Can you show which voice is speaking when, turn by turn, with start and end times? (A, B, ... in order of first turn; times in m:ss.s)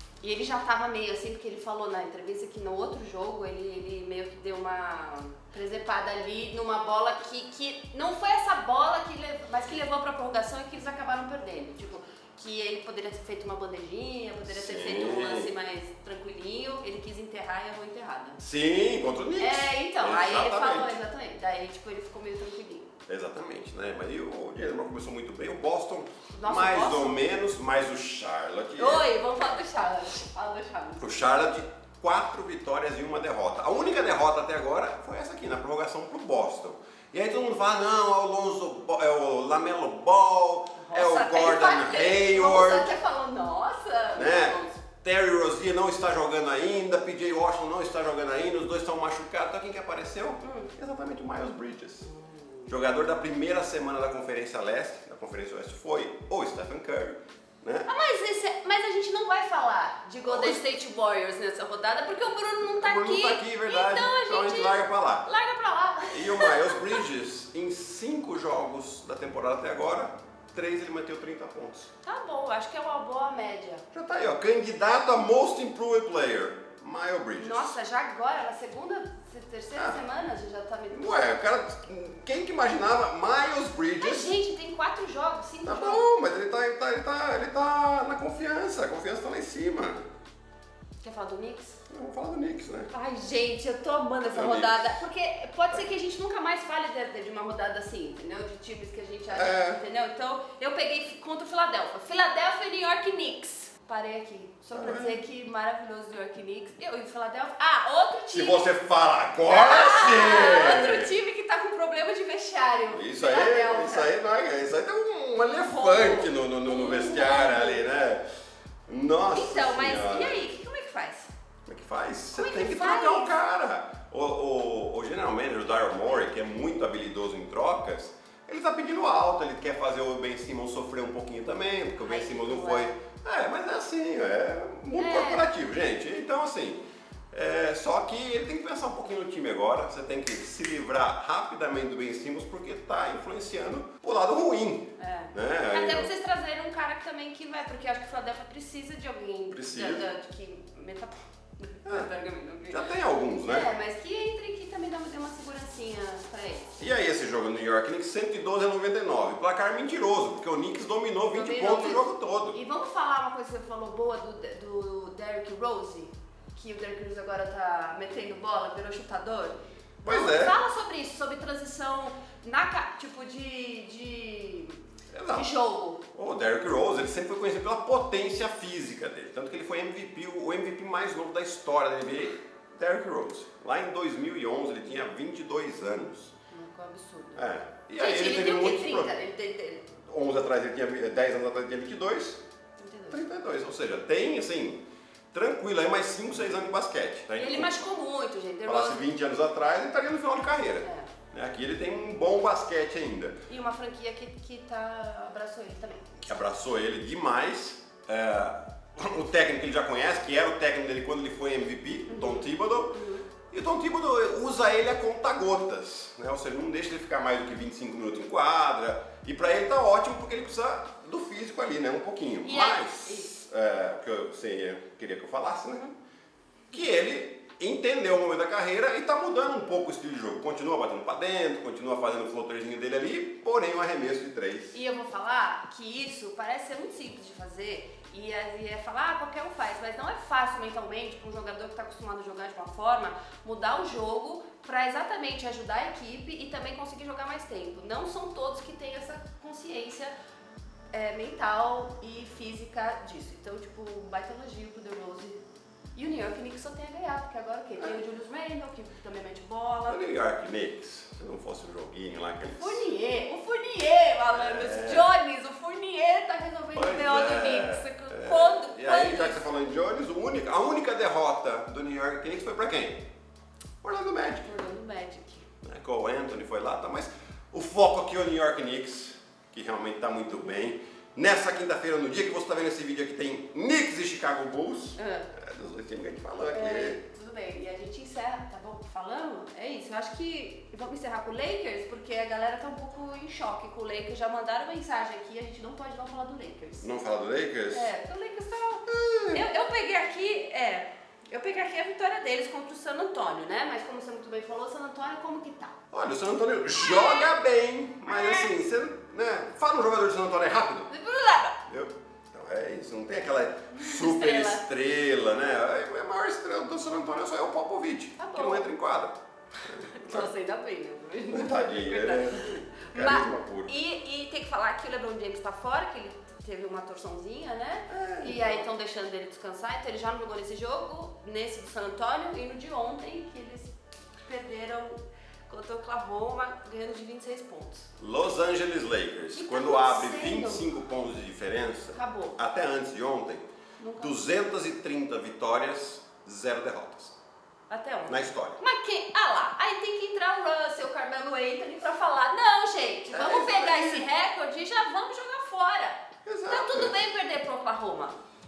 0:00.2-0:18.4 A
0:14.5-0:15.5 B
0:18.4-0:21.0 B
0:19.4-0:22.9 A
0:23.1-0:29.1 B
0:26.3-0:27.2 A
0:28.8-0:31.3 A
0:31.0-0:43.0 B
0:40.8-0:44.8 A
0:44.1-0:52.1 B
0:50.4-0:50.7 A
0:52.1-0:52.7 A
0:52.7-0:57.9 B
0:57.9-1:07.0 A
1:00.3-1:00.6 B
1:02.7-1:05.3 B
1:06.1-1:11.9 B
1:12.0-1:13.8 A
1:13.9-1:17.8 B
1:17.4-1:21.3 A
1:20.9-1:24.4 B
1:24.0-1:26.0 A
1:25.6-1:30.0 B
1:31.0-1:31.8 A
1:31.9-1:32.9 B
1:32.9-1:48.7 A
1:34.3-1:35.0 B
1:39.3-1:39.8 B
1:44.7-1:45.2 B
1:48.3-1:51.1 B
1:49.5-1:54.1 A
1:52.9-1:58.2 B
1:55.6-1:57.9 A
1:58.9-2:00.5 B
1:59.3-2:01.3 A
2:01.7-2:26.1 B
2:02.4-2:03.4 A
2:12.0-2:12.9 A
2:14.9-2:15.5 A
2:25.0-2:32.8 A
2:29.5-2:30.1 B
2:32.7-2:33.7 B
2:33.4-2:36.7 A
2:36.8-2:42.6 B
2:41.3-2:54.8 A
2:50.0-2:50.6 B
2:55.1-2:55.5 B
2:55.3-2:56.0 A
2:56.1-3:06.3 B
3:06.5-3:07.4 A
3:07.4-3:09.1 B
3:08.0-3:09.9 A
3:10.0-3:12.4 B
3:12.8-3:13.2 A
3:13.1-3:17.9 B
3:17.4-3:19.0 A
3:18.7-3:23.4 B
3:20.8-3:21.1 A
3:23.5-3:26.2 A
3:26.2-3:33.0 B
3:32.1-3:33.3 A
3:33.5-3:45.8 B
3:42.4-3:43.3 A
3:46.7-3:54.8 B
3:54.7-4:10.1 A
4:10.9-4:15.4 A
4:16.0-4:20.0 A
4:19.9-4:22.8 B
4:22.5-4:29.4 A
4:24.3-4:25.1 B
4:26.8-4:33.0 B
4:33.8-4:34.5 B
4:34.4-4:35.5 A
4:35.6-4:47.0 B
4:45.0-4:45.3 A
4:46.4-4:56.9 A
4:56.8-4:57.9 B
4:57.7-5:05.7 A
4:58.9-4:59.4 B
5:05.9-5:10.9 B
5:06.8-5:07.3 A
5:08.1-5:08.6 A
5:10.9-5:11.6 A
5:11.7-5:20.3 B
5:13.7-5:14.6 A
5:18.2-5:18.7 A
5:19.7-5:37.9 A
5:21.3-5:23.7 B
5:27.9-5:28.7 B
5:38.0-5:43.5 B
5:39.4-5:40.7 A
5:41.9-5:42.4 A
5:43.8-5:44.2 A
5:44.0-5:47.2 B
5:47.7-5:58.2 A
5:48.1-5:48.6 B
5:53.1-5:54.1 B
5:56.2-5:57.0 B